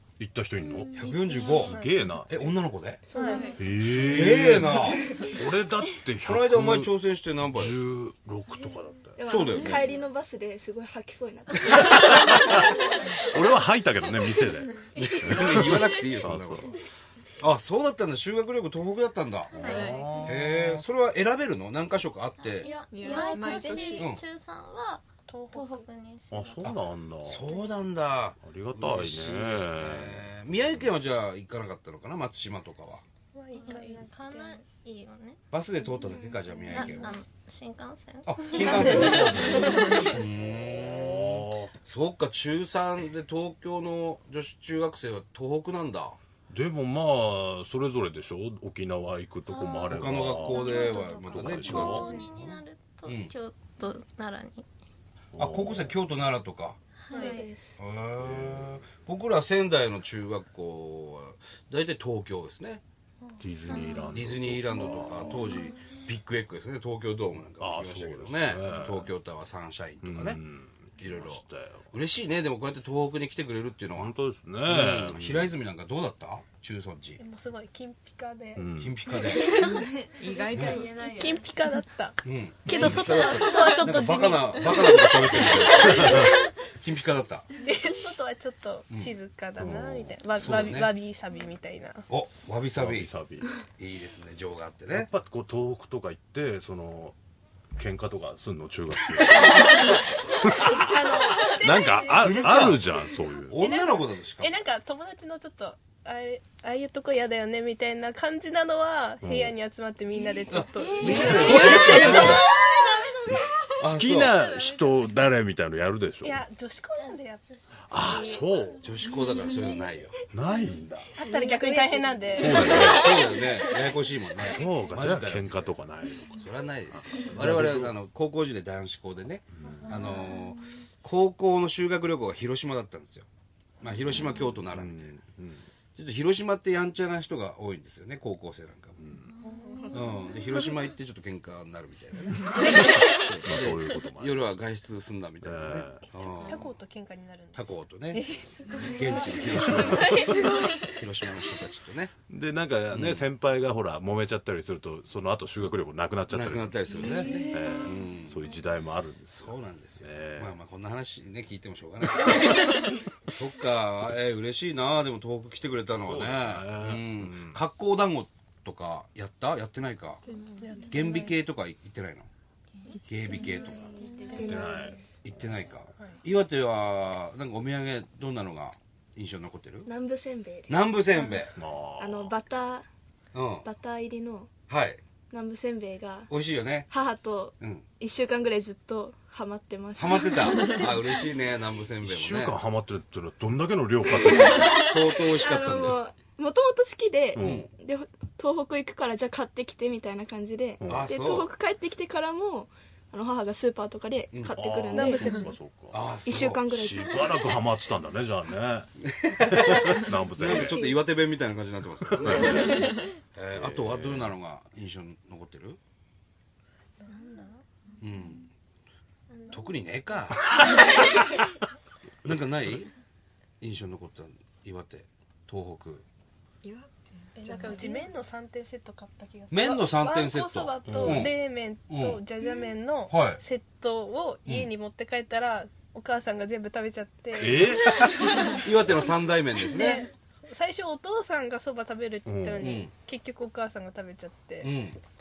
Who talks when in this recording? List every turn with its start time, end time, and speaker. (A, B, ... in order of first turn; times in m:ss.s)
0:00.2-0:01.0 A
0:00.6-0:01.8 B
0:00.9-0:01.8 C
0:01.3-0:02.0 D
0:01.5-0:02.4 A
0:02.3-0:03.0 C
0:03.1-0:03.6 E
0:03.1-0:03.6 D
0:03.6-0:06.9 A
0:03.9-0:05.0 C
0:06.3-0:07.8 C
0:07.5-0:09.8 A
0:09.2-0:12.2 E
0:09.2-0:09.9 C
0:11.9-0:16.8 A
0:15.0-0:16.8 C
0:17.4-0:22.7 C
0:19.5-0:20.3 B
0:19.6-0:20.1 F
0:19.6-0:20.8 A
0:22.5-0:26.7 B
0:22.8-0:24.1 F
0:22.9-0:24.2 D
0:24.0-0:24.2 C
0:25.3-0:25.9 D
0:26.3-0:27.5 A
0:26.6-0:33.0 C
0:28.4-0:30.9 A
0:33.3-0:34.6 D
0:33.6-0:35.4 B
0:35.5-0:37.2 C
0:36.7-0:40.1 B
0:38.3-0:46.2 C
0:40.7-0:41.7 A
0:46.5-0:52.1 A
0:49.5-0:54.7 B
0:49.9-0:53.3 C
0:55.3-0:56.0 A
0:55.4-0:56.8 C
0:57.0-0:57.4 B
0:57.1-0:57.5 D
0:57.1-0:57.8 E
0:57.8-1:02.8 C
0:58.2-0:58.8 A
1:03.4-1:05.5 A
1:03.7-1:04.2 B
1:04.1-1:10.4 C
1:07.6-1:09.1 A
1:10.0-1:11.9 A
1:11.0-1:14.1 C
1:13.9-1:15.5 A
1:14.6-1:17.2 C
1:17.2-1:26.3 D
1:18.6-1:19.0 A
1:18.8-1:19.6 C
1:20.2-1:21.5 F
1:20.5-1:20.8 C
1:20.6-1:20.9 E
1:22.2-1:27.5 C
1:25.9-1:26.3 A
1:27.6-1:32.1 D
1:29.6-1:30.7 A
1:30.4-1:30.9 C
1:32.1-1:33.1 C
1:32.8-1:33.5 A
1:33.8-1:35.1 C
1:34.9-1:37.2 A
1:37.8-1:43.7 A
1:39.4-1:40.0 D
1:40.7-1:42.3 D
1:42.1-1:42.8 C
1:43.5-1:44.5 C
1:43.6-1:52.5 D
1:49.2-1:49.6 A
1:50.5-1:52.5 C
1:50.8-1:53.5 E
1:51.0-1:52.5 A
1:53.8-1:54.4 C
1:53.8-1:56.4 A
1:54.4-1:55.1 B
1:56.2-1:58.5 D
1:57.9-1:58.8 A
1:58.0-1:58.6 B
1:58.8-2:00.2 C
2:00.3-2:01.2 A
2:01.2-2:03.8 D
2:01.3-2:02.8 E
2:02.3-2:03.2 A
2:02.5-2:03.0 B
2:02.7-2:05.8 C
2:04.4-2:06.5 A
2:06.3-2:13.3 C
2:07.1-2:08.0 A
2:09.6-2:10.1 A
2:09.9-2:10.2 D
2:13.8-2:15.1 C
2:14.1-2:15.7 A
2:16.0-2:19.0 C
2:19.0-2:19.3 A
2:19.4-2:20.3 D
2:19.9-2:26.7 C
2:22.4-2:24.5 A
2:22.6-2:23.1 D
2:25.4-2:26.0 A
2:26.1-2:30.6 D
2:27.5-2:28.2 C
2:28.7-2:29.2 E
2:28.8-2:32.1 C
2:29.8-2:30.6 A
2:32.3-2:40.6 A
2:32.9-2:33.3 C
2:36.3-2:38.4 C
2:37.2-2:37.7 D
2:39.3-2:50.2 C
2:46.1-2:47.6 A
2:50.3-2:50.9 F
2:50.6-2:51.4 D
2:50.9-2:52.3 C
2:53.1-2:54.0 C
2:53.1-2:54.7 F
2:53.4-2:55.0 E
2:53.9-2:54.8 B
2:54.2-2:54.6 D
2:54.4-2:55.0 A
2:55.2-2:59.9 C
2:59.8-3:00.9 E
3:00.7-3:01.6 C
3:01.5-3:02.4 A
3:02.0-3:02.9 E
3:03.3-3:03.7 C
3:03.6-3:04.5 E
3:04.7-3:05.0 C
3:05.3-3:06.3 E
3:06.3-3:06.9 C
3:06.9-3:10.9 E
3:07.6-3:07.9 C
3:10.0-3:12.6 C
3:12.0-3:14.8 A
3:14.1-3:25.5 E
3:14.5-3:16.0 C
3:17.4-3:17.7 A
3:17.4-3:17.7 C
3:20.8-3:21.2 A
3:20.8-3:21.5 C
3:24.3-3:25.2 C
3:24.9-3:25.4 D
3:25.2-3:26.1 A
3:25.9-3:27.2 C
3:26.2-3:27.4 E
3:26.8-3:30.8 A
3:29.0-3:35.8 C
3:30.4-3:31.0 E
3:32.1-3:32.9 A
3:33.5-3:34.4 A
3:37.0-3:37.6 B
3:38.0-3:38.5 C
3:39.3-3:39.7 B
3:39.5-3:40.6 C
3:42.2-3:42.9 C
3:43.6-3:46.0 C
3:46.6-3:48.1 F
3:47.4-3:58.6 D
3:49.5-3:51.4 C
3:50.8-3:51.3 A
3:51.9-3:52.2 C
3:53.1-3:53.4 C
3:57.4-3:57.9 A
3:58.0-4:00.1 C
3:59.7-4:04.7 D
4:02.3-4:02.6 A
4:02.6-4:02.9 C
4:04.6-4:05.0 C